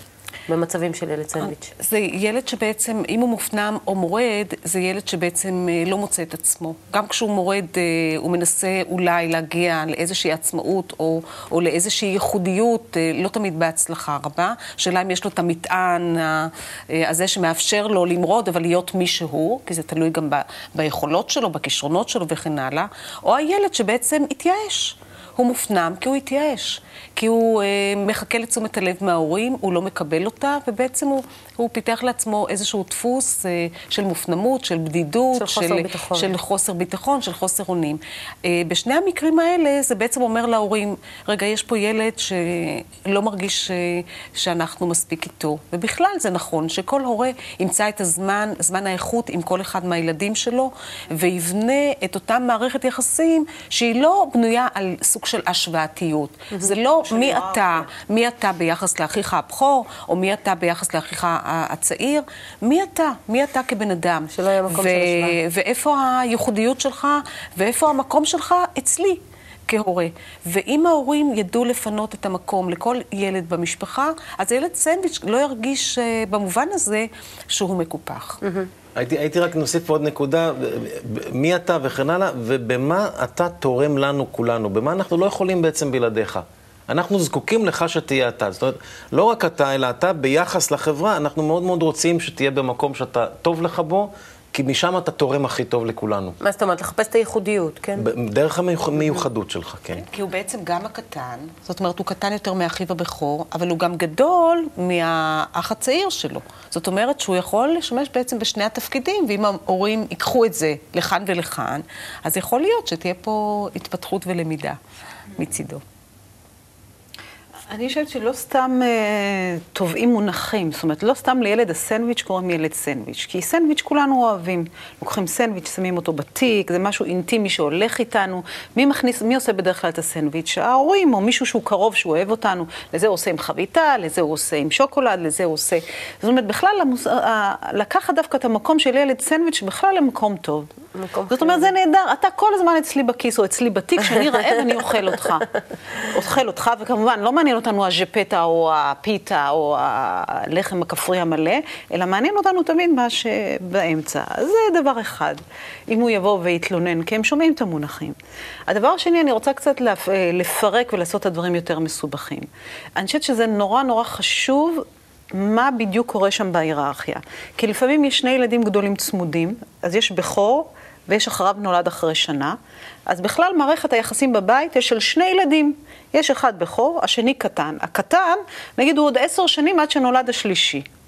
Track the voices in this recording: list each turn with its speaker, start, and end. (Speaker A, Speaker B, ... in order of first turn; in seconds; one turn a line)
Speaker A: 0.5-1.7
Speaker B: 1.4-78.4
Speaker A: 35.4-36.3
Speaker C: 57.0-57.9
Speaker A: 64.3-65.4
Speaker A: 78.4-78.7
Speaker D: 79.0-96.4
Speaker A: 96.4-98.1
Speaker D: 98.0-100.0
Speaker B: 100.0-114.8
Speaker B: 115.4-115.8
Speaker C: 117.7-140.7
Speaker A: 140.9-141.7
Speaker C: 141.3-145.5
Speaker C: 146.1-158.2
Speaker C: 158.7-172.6
Speaker C: 173.1-180.9